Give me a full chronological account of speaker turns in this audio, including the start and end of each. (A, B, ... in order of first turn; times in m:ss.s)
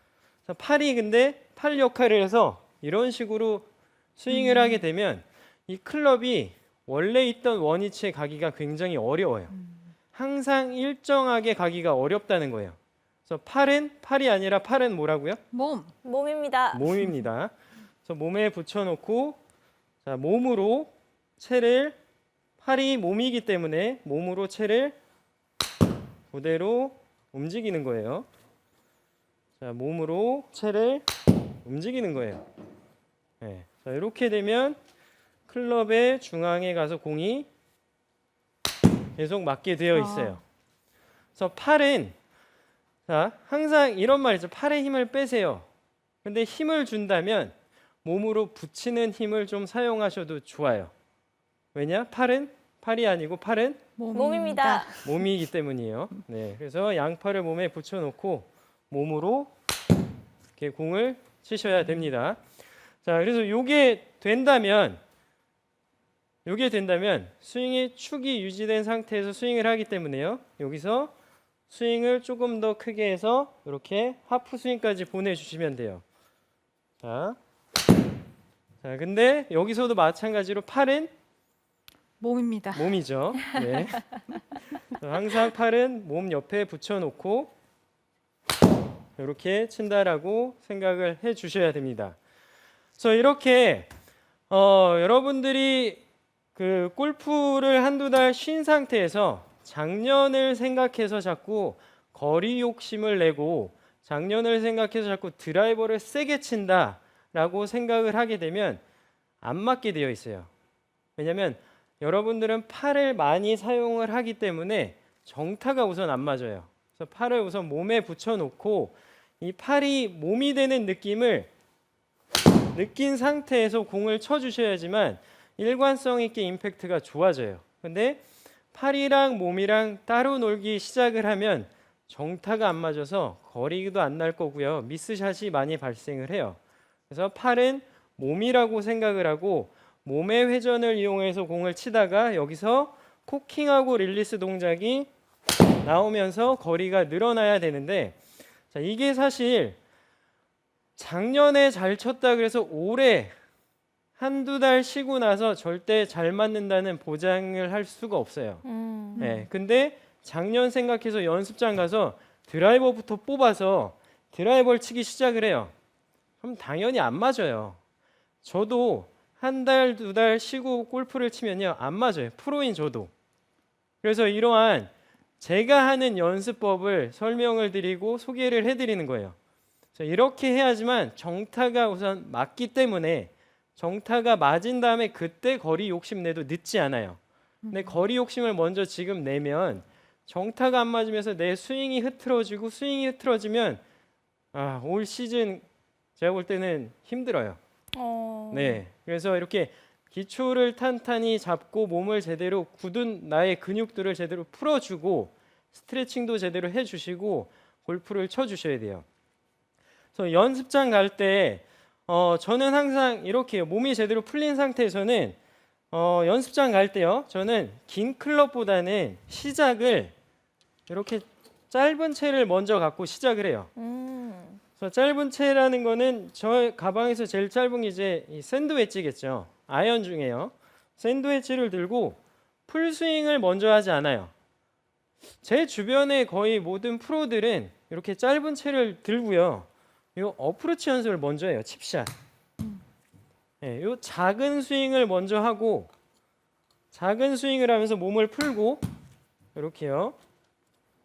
0:00.5-0:03.7 A
0:04.2-0:09.5 A
0:04.3-0:04.8 B
0:09.5-0:09.8 B
0:10.1-0:15.4 A
0:15.5-0:15.9 B
0:16.0-0:17.0 C
0:16.7-0:17.5 A
0:18.0-0:19.4 A
0:20.0-0:22.0 A
0:22.6-0:25.0 A
0:26.3-0:28.3 A
0:29.6-0:31.0 A
0:31.6-0:32.4 A
0:33.4-0:34.8 A
0:35.5-0:37.5 A
0:39.2-0:40.4 A
0:39.9-0:40.4 B
0:41.4-0:42.2 A
0:43.1-0:45.7 A
0:46.2-0:50.9 A
0:51.7-0:53.8 A
0:54.0-0:55.2 B
0:54.1-0:55.0 C
0:55.0-0:59.5 A
1:00.6-1:02.4 A
1:03.0-1:05.0 A
1:06.4-1:11.1 A
1:11.7-1:16.0 A
1:17.0-1:17.4 A
1:18.8-1:21.1 A
1:22.2-1:22.9 B
1:22.8-1:24.1 A
1:24.9-1:27.5 A
1:29.2-1:32.2 A
1:33.0-1:33.9 A
1:34.5-1:36.0 A
1:36.6-1:48.8 A
1:49.4-1:50.5 A
1:51.2-2:01.5 A
2:02.7-2:08.2 A
2:08.7-2:16.6 A
2:17.1-2:25.1 A
2:25.8-2:28.2 A
2:28.7-2:29.8 A
2:31.0-2:33.3 A
2:34.2-2:38.6 A
2:38.6-2:39.2 C
2:39.2-2:39.5 B
2:39.2-2:45.7 A
2:46.4-2:47.8 A
2:48.4-2:53.1 A
2:54.0-2:59.4 A
3:00.0-3:07.2 A
3:07.6-3:08.0 B
3:07.7-3:13.8 A
3:14.5-3:15.6 A
3:16.2-3:17.6 A
3:17.9-3:18.8 C
3:18.5-3:29.0 A
3:30.2-3:35.4 A
3:35.9-3:40.1 A
3:40.9-3:43.7 A
3:43.8-3:44.6 C
3:44.8-3:54.3 A
3:55.4-4:02.1 A
4:03.6-4:05.9 A
4:06.9-4:08.8 A
4:09.6-4:10.2 A